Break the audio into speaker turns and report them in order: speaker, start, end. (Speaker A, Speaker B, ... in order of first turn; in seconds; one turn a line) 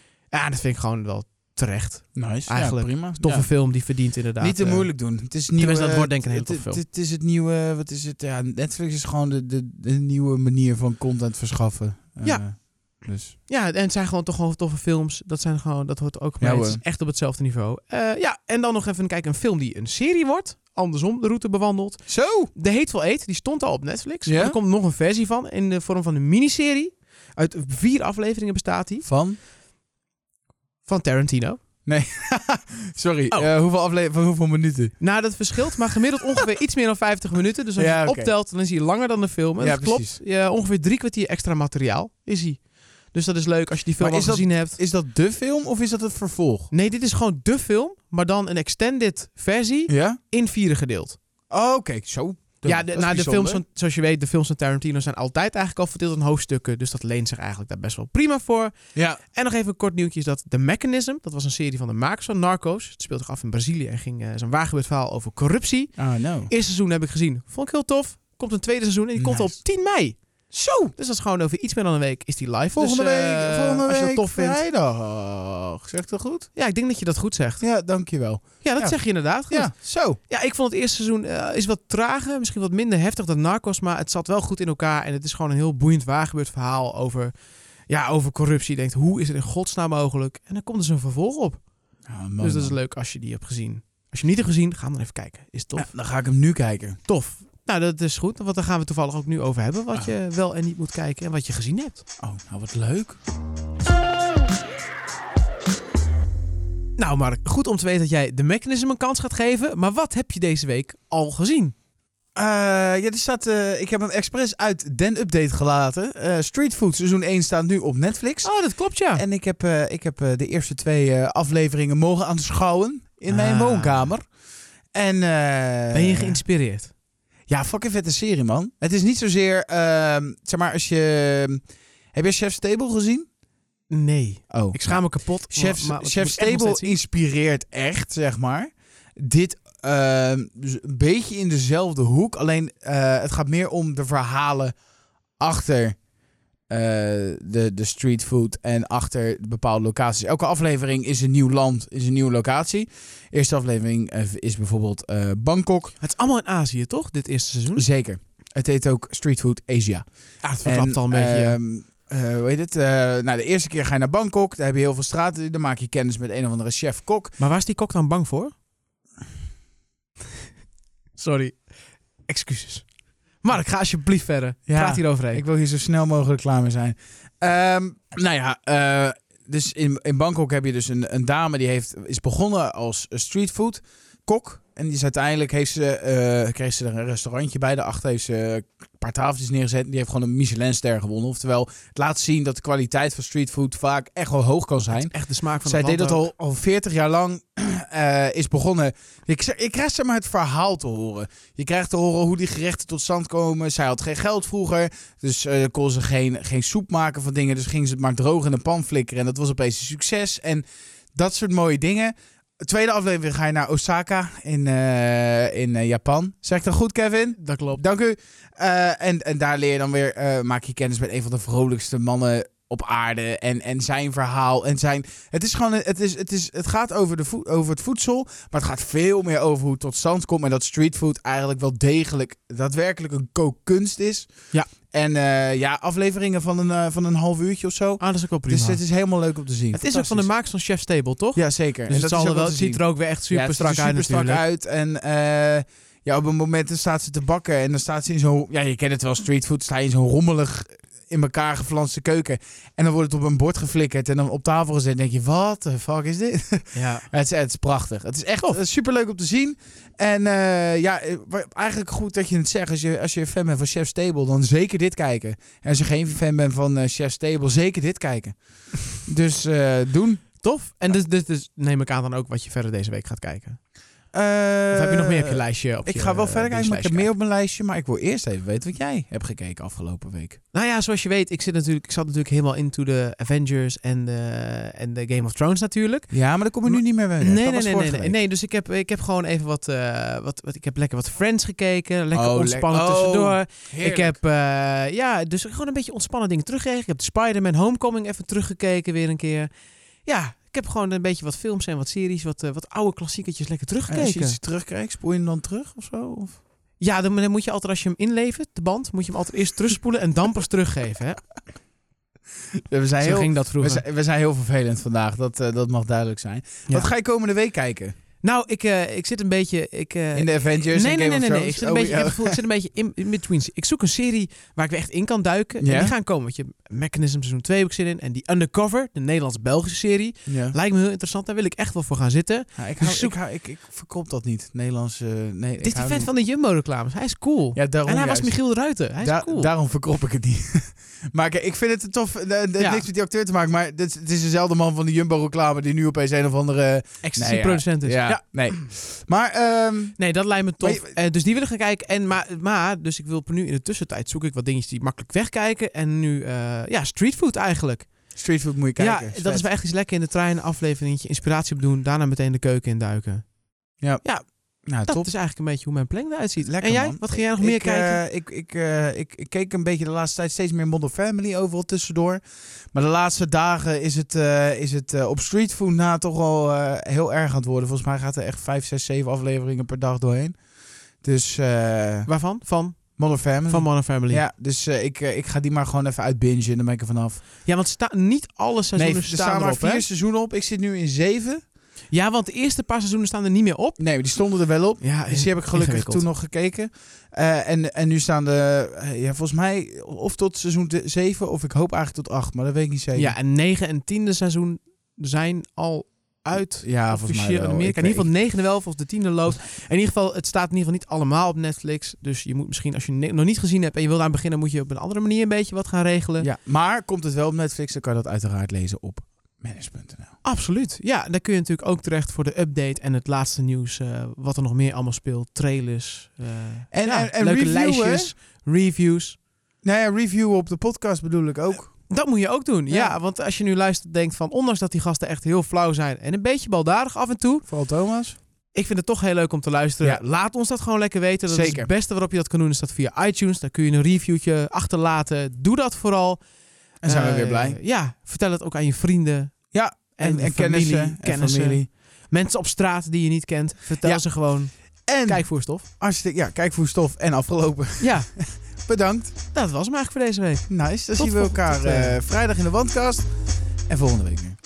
Speaker A: 0.3-6.8
Speaker B: 2.1-3.6
Speaker B: 4.4-13.3
Speaker A: 12.2-12.6
Speaker A: 13.5-29.1
Speaker B: 16.4-16.8
Speaker B: 22.1-22.5
Speaker B: 24.3-24.6
Speaker B: 29.1-29.4
Speaker A: 30.9-31.6
Speaker B: 31.9-35.0
Speaker A: 35.0-44.8
Speaker B: 37.8-38.3
Speaker B: 39.6-40.2
Speaker B: 44.0-46.7
Speaker A: 46.7-51.2
Speaker B: 49.9-50.2
Speaker B: 51.5-53.6
Speaker A: 52.6-58.8
Speaker B: 59.0-59.2
Speaker A: 59.3-70.2
Speaker B: 66.0-66.5
Speaker B: 69.2-69.6
Speaker B: 70.5-70.9
Speaker A: 71.0-74.6
Speaker B: 72.8-76.5
Speaker A: 76.6-77.6
Speaker B: 77.6-80.2
Speaker A: 78.6-87.3
Speaker A: 87.9-91.6
Speaker B: 92.1-92.8
Speaker A: 92.4-95.9
Speaker B: 95.8-97.0
Speaker A: 97.1-102.0
Speaker B: 102.2-103.2
Speaker A: 107.0-111.7
Speaker B: 112.4-118.5
Speaker A: 118.4-119.2
Speaker B: 119.1-124.2
Speaker A: 123.3-124.1
Speaker B: 124.9-126.4
Speaker A: 125.9-126.9
Speaker B: 127.5-131.6
Speaker B: 132.1-133.3
Speaker A: 133.9-137.0
Speaker B: 134.5-144.8
Speaker B: 145.4-146.0
Speaker B: 146.7-155.9
Speaker A: 156.0-157.8
Speaker B: 157.8-160.0
Speaker A: 160.4-161.6
Speaker B: 160.6-167.3
Speaker A: 167.4-168.5
Speaker A: 171.2-171.7
Speaker A: 172.3-175.4
Speaker B: 174.7-195.1
Speaker A: 194.9-196.2
Speaker B: 195.6-240.3
Speaker A: 217.4-217.8
Speaker A: 238.0-238.8
Speaker A: 239.7-244.4
Speaker B: 241.3-270.3
Speaker A: 256.7-257.1
Speaker A: 270.4-273.6
Speaker B: 274.1-280.4
Speaker A: 274.7-277.1
Speaker A: 280.5-299.5
Speaker B: 286.1-288.2
Speaker B: 292.1-294.2
Speaker A: 300.1-304.4
Speaker B: 303.9-306.4
Speaker A: 306.8-311.3
Speaker B: 312.7-318.0
Speaker A: 313.0-313.9
Speaker A: 318.2-333.2
Speaker B: 320.1-322.4
Speaker B: 325.6-325.9
Speaker B: 330.3-330.6
Speaker B: 332.6-336.1
Speaker A: 335.6-339.5
Speaker B: 337.6-338.4
Speaker B: 339.0-350.0
Speaker A: 342.6-342.9
Speaker A: 347.0-348.7
Speaker A: 350.0-358.0
Speaker B: 350.6-350.9
Speaker B: 358.1-359.5
Speaker A: 358.8-363.3
Speaker B: 363.8-364.1
Speaker A: 364.0-368.0
Speaker B: 364.7-365.1
Speaker B: 366.4-372.2
Speaker B: 372.7-380.4
Speaker B: 381.0-382.1
Speaker A: 382.1-384.2
Speaker B: 383.0-387.2
Speaker A: 387.4-389.9
Speaker B: 388.8-391.4
Speaker A: 391.9-394.1
Speaker B: 393.8-403.1
Speaker A: 394.8-396.1
Speaker A: 402.9-416.3
Speaker B: 406.6-408.1
Speaker B: 416.2-420.2
Speaker A: 420.2-429.2
Speaker B: 426.7-428.1
Speaker B: 429.6-431.9
Speaker A: 431.9-437.5
Speaker B: 432.7-433.0
Speaker B: 437.5-438.2
Speaker A: 438.5-446.2
Speaker B: 441.3-441.7
Speaker B: 446.8-447.6
Speaker A: 446.8-455.7
Speaker B: 449.5-451.7
Speaker B: 454.9-459.1
Speaker A: 457.8-458.1
Speaker A: 459.3-462.0
Speaker B: 460.5-463.1
Speaker B: 463.7-464.4